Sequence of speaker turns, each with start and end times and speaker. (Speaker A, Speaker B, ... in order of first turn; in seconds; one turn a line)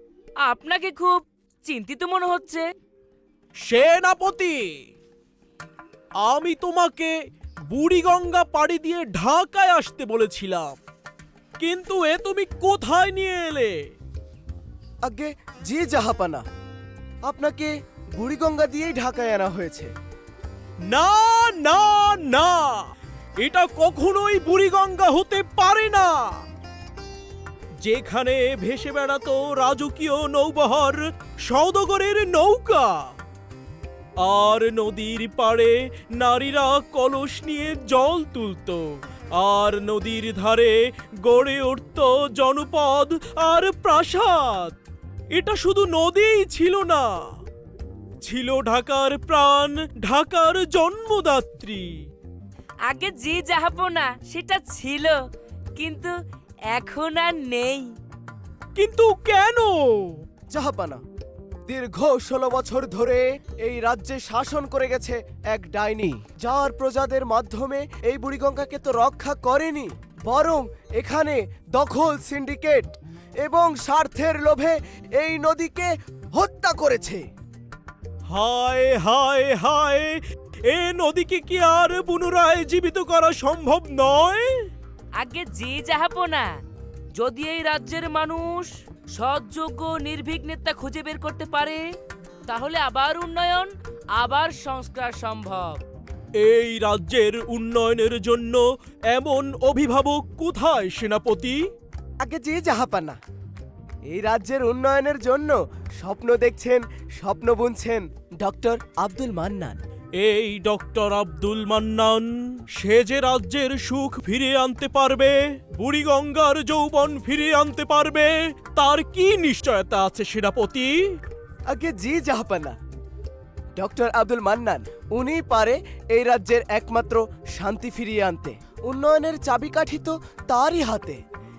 Speaker A: 0.4-2.6
Speaker B: 3.6-4.8
Speaker B: 6.2-7.1
Speaker B: 7.7-10.8
Speaker B: 11.6-13.7
Speaker C: 15.0-16.4
Speaker C: 17.2-19.9
Speaker B: 20.9-22.8
Speaker B: 23.4-26.4
Speaker B: 27.8-33.1
Speaker B: 34.2-44.8
Speaker B: 45.3-47.1
Speaker B: 48.2-52.0
Speaker A: 52.9-55.2
Speaker A: 55.8-56.1
Speaker A: 56.7-57.9
Speaker B: 58.8-60.2
Speaker C: 60.5-61.0
Speaker C: 61.7-72.9
Speaker C: 73.4-77.2
Speaker B: 78.3-84.7
Speaker A: 85.2-86.5
Speaker A: 87.2-91.8
Speaker A: 92.5-95.8
Speaker B: 96.4-101.6
Speaker C: 102.2-103.2
Speaker C: 104.1-109.8
Speaker B: 110.2-121.2
Speaker C: 121.7-122.7
Speaker C: 123.8-131.2